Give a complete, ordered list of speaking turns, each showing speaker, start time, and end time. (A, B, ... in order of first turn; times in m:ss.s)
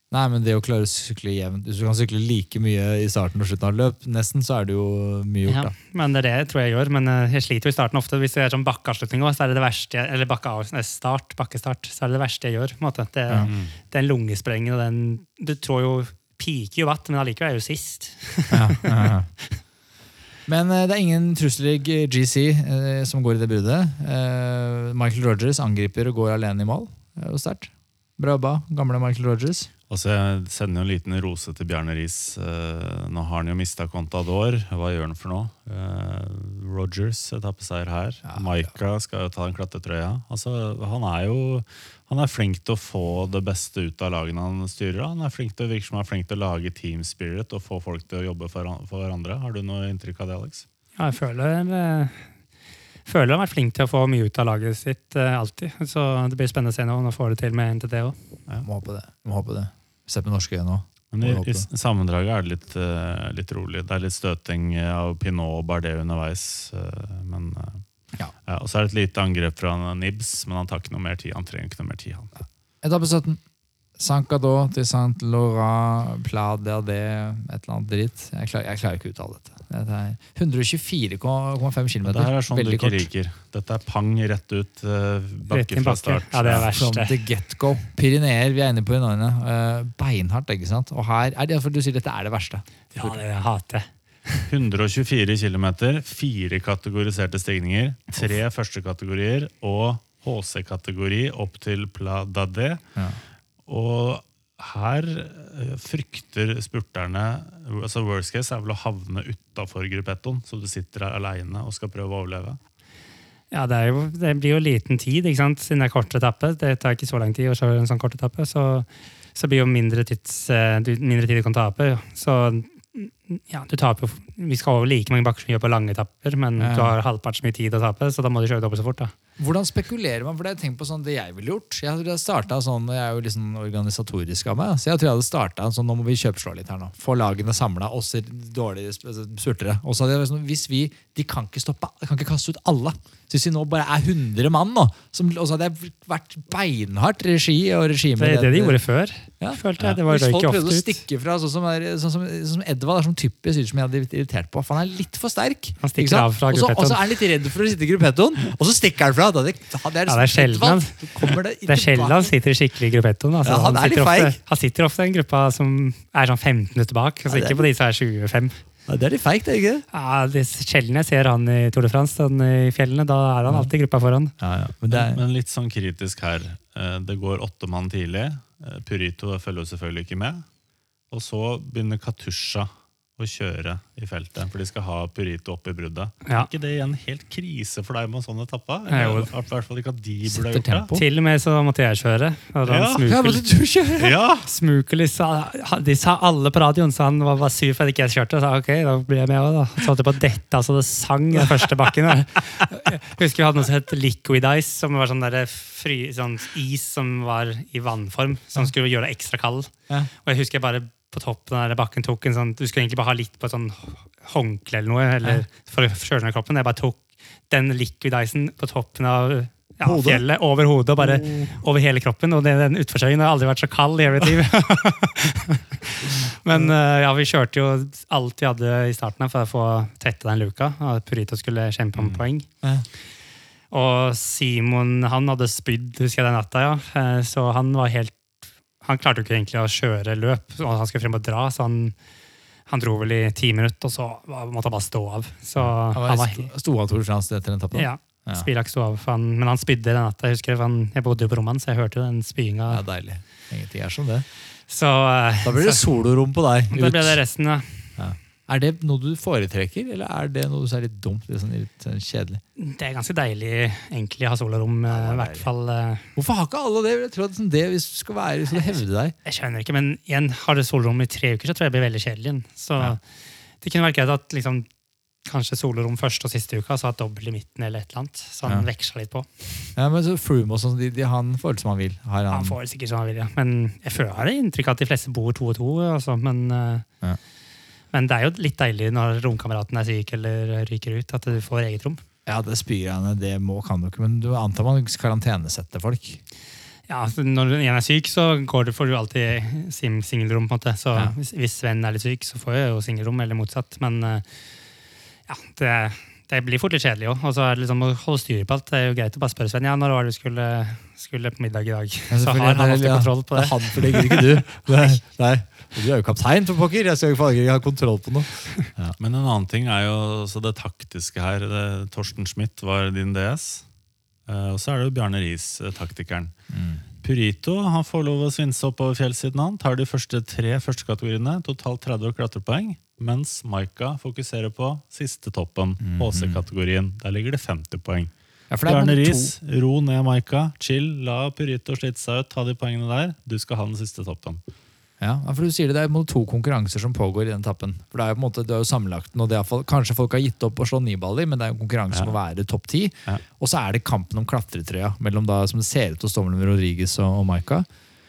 0:00.1-0:05.7 A
0:05.4-0:19.1 B
0:13.5-0:13.7 C
0:18.5-0:19.3 A
0:20.5-0:29.7 A
0:29.9-0:50.7 C
0:51.0-0:52.3 B
0:53.1-0:58.2 B
0:58.6-1:01.7 A
1:01.1-1:07.8 C
1:08.5-1:12.3 C
1:12.8-1:13.4 A
1:14.0-1:23.1 A
1:22.0-1:26.7 C
1:25.5-1:27.2 B
1:26.6-1:33.2 A
1:32.9-1:34.5 B
1:34.5-1:42.8 C
1:43.7-1:52.6 C
1:53.5-2:09.1 B
2:06.6-2:07.0 A
2:09.4-2:28.8 A
2:28.2-2:31.0 B
2:29.4-2:42.3 A
2:35.8-2:37.2 B
2:40.1-2:48.6 B
2:43.4-2:44.4 A
2:47.3-2:47.7 A
2:48.9-2:49.9 A
2:49.9-2:54.3 B
2:54.4-2:55.2 A
2:54.9-3:00.4 C
3:01.1-3:10.9 C
3:08.9-3:09.3 B
3:10.3-3:11.1 A
3:10.9-3:13.5 B
3:12.7-3:13.1 C
3:13.1-3:14.2 A
3:14.0-3:14.5 C
3:14.4-3:29.7 B
3:30.2-3:52.5 B
3:39.8-3:40.2 A
3:41.0-3:41.6 A
3:46.5-3:46.7 A
3:52.0-3:52.2 C
3:53.7-3:58.2 B
3:58.8-4:02.0 B
4:02.7-4:06.5 B
4:05.6-4:08.5 A
4:07.7-4:12.8 B
4:12.7-4:14.3 A
4:14.7-4:15.8 B
4:15.4-4:17.2 A
4:16.7-4:17.8 B
4:18.0-4:22.4 A
4:22.6-4:26.1 B
4:24.9-4:25.5 A
4:26.2-4:29.2 A
4:29.2-4:33.0 B
4:33.6-4:34.7 B
4:35.3-4:39.7 B
4:39.8-4:42.6 A
4:42.3-4:46.9 B
4:47.9-4:52.0 B
4:52.3-4:56.2 A
4:56.9-5:04.3 B
5:05.3-5:14.4 B
5:12.1-5:19.0 A
5:19.0-5:23.6 C
5:24.3-5:26.3 C
5:26.5-5:26.8 A
5:27.0-5:38.1 C
5:35.8-5:36.4 A
5:38.5-5:39.3 A
5:38.6-5:44.4 C
5:45.0-5:57.7 A